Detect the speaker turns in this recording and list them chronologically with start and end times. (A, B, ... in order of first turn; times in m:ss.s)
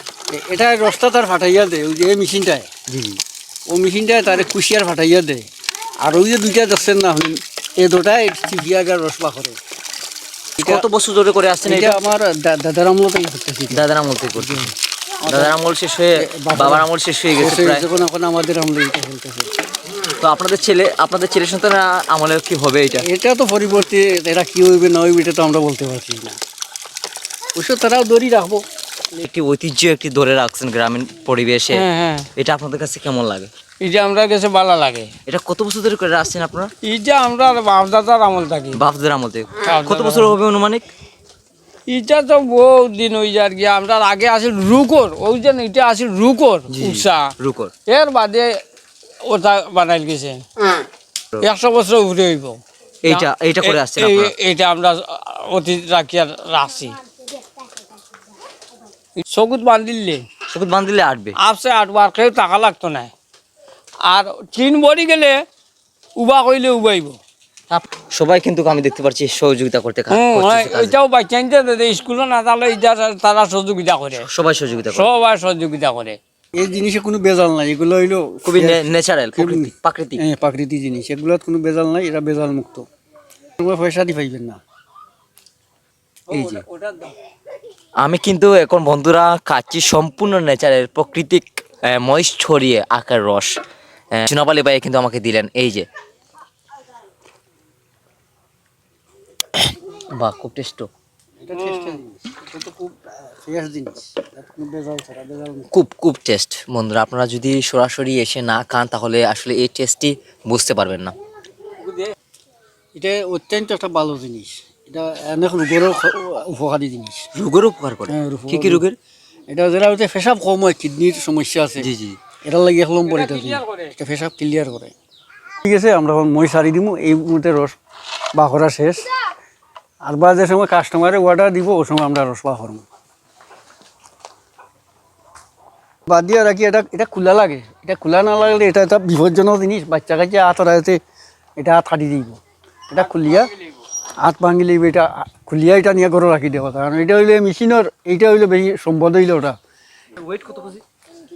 0:00.3-0:02.7 A
0:02.9-0:03.2 B
0:03.7-0:05.5 A
0:06.0-0:09.6 A
0:10.6-0:12.0 B
0:10.6-0:10.8 A
0:11.6-0:13.8 A
0:13.7-0:14.7 B
0:14.4-0:14.7 A
0:15.2-0:15.6 A
0:15.3-0:17.8 B
0:16.2-0:19.5 A
0:20.2-0:23.0 B
0:23.0-0:26.4 A
0:27.6-0:28.6 A
0:29.2-0:31.8 B
0:31.7-0:32.3 C
0:32.4-0:33.5 B
0:33.8-0:35.1 C
0:35.2-0:36.7 B
0:36.8-0:38.8 C
0:38.7-0:40.8 B
0:39.6-0:40.3 C
0:41.9-0:47.3 C
0:46.7-0:47.7 B
0:47.9-0:48.5 C
0:49.2-0:50.4 C
0:51.4-0:57.0 C
0:53.0-0:54.3 B
0:59.2-1:00.2 C
1:00.5-1:01.4 B
1:01.4-1:03.1 C
1:04.1-1:05.4 C
1:06.2-1:07.2 C
1:07.7-1:11.0 B
1:10.1-1:14.2 C
1:14.2-1:15.1 B
1:14.9-1:16.2 C
1:16.5-1:18.8 A
1:18.4-1:20.2 B
1:19.4-1:22.8 A
1:23.6-1:24.6 A
1:26.3-1:27.1 A
1:26.3-1:26.6 B
1:28.0-1:33.5 B
1:34.1-1:35.9 B
1:40.1-1:40.9 B
1:41.4-1:45.7 A
1:45.7-1:51.1 B
1:52.9-1:57.3 A
1:57.3-1:59.0 B
1:58.1-1:58.8 A
1:59.5-2:01.9 A
2:01.8-2:02.2 B
2:02.4-2:04.9 A
2:03.0-2:03.9 C
2:05.6-2:07.7 A
2:08.3-2:09.0 A
2:10.0-2:12.8 A
2:16.1-2:21.0 A
2:21.6-2:22.4 A
2:22.9-2:23.5 A
2:24.2-2:29.6 A
2:30.2-2:30.8 B